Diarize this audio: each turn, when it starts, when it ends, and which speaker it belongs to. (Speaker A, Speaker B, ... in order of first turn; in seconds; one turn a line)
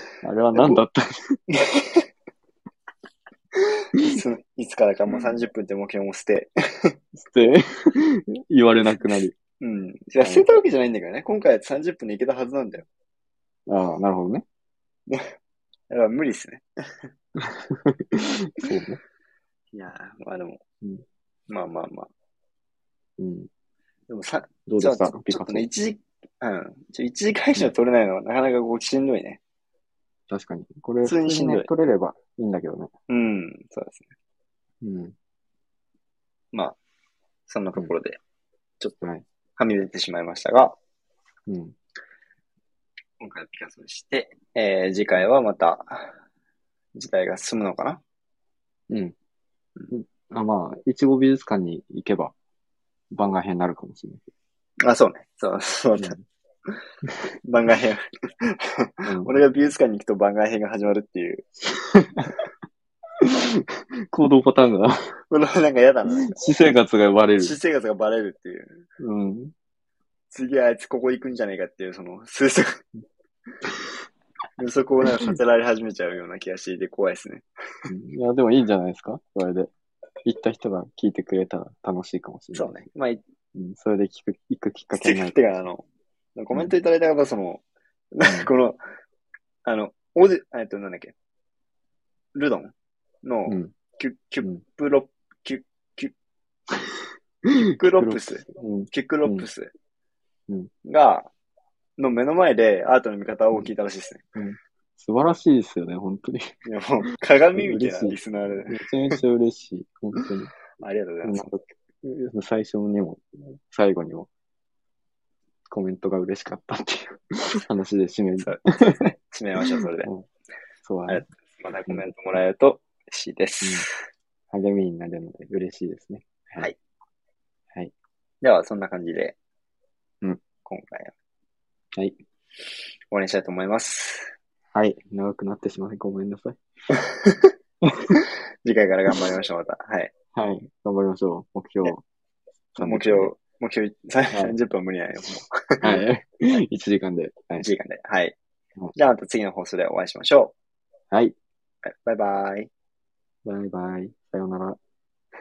Speaker A: 0.2-1.4
Speaker B: 0.5-0.8
Speaker B: 1.5-2.0
Speaker B: 4.0-6.9
Speaker A: 7.2-9.3
Speaker B: 8.8-12.8
Speaker A: 13.7-14.4
Speaker B: 15.9-16.6
Speaker A: 17.4-19.0
Speaker B: 19.7-20.6
Speaker B: 21.5-22.1
Speaker A: 23.2-23.5
Speaker B: 24.1-29.4
Speaker A: 24.7-25.7
Speaker A: 30.3-32.9
Speaker B: 31.0-31.7
Speaker B: 33.1-34.1
Speaker A: 34.8-35.1
Speaker B: 36.5-36.8
Speaker B: 37.5-38.2
Speaker B: 39.6-40.8
Speaker A: 41.5-41.8
Speaker B: 43.2-46.1
Speaker B: 46.9-48.0
Speaker A: 48.9-49.1
Speaker A: 49.9-52.3
Speaker A: 53.1-54.2
Speaker B: 54.8-56.2
Speaker B: 57.4-61.5
Speaker A: 59.0-59.4
Speaker A: 61.9-62.3
Speaker A: 63.2-65.0
Speaker B: 65.3-66.4
Speaker A: 66.1-67.6
Speaker B: 67.4-68.8
Speaker A: 69.0-69.5
Speaker B: 70.3-72.8
Speaker B: 74.6-77.4
Speaker A: 77.9-79.7
Speaker A: 80.2-82.8
Speaker B: 82.5-83.2
Speaker A: 83.5-85.4
Speaker B: 84.9-88.8
Speaker A: 88.2-88.5
Speaker B: 89.6-91.1
Speaker B: 92.3-96.1
Speaker A: 93.5-93.7
Speaker A: 97.5-99.5
Speaker B: 97.8-99.7
Speaker B: 100.8-101.3
Speaker B: 102.0-104.2
Speaker A: 104.3-110.5
Speaker B: 106.7-108.9
Speaker B: 110.8-111.5
Speaker A: 111.2-114.3
Speaker A: 115.7-119.0
Speaker B: 118.4-120.1
Speaker A: 120.8-121.2
Speaker B: 121.1-123.9
Speaker A: 124.5-126.7
Speaker B: 128.4-129.3
Speaker B: 130.6-131.1
Speaker B: 133.1-134.3
Speaker A: 134.7-136.6
Speaker A: 137.8-138.2
Speaker B: 138.6-140.1
Speaker A: 140.3-142.0
Speaker A: 142.8-143.3
Speaker B: 142.8-146.0
Speaker A: 145.8-147.7
Speaker B: 147.6-148.3
Speaker B: 148.9-150.5
Speaker B: 151.8-152.7
Speaker A: 153.4-154.8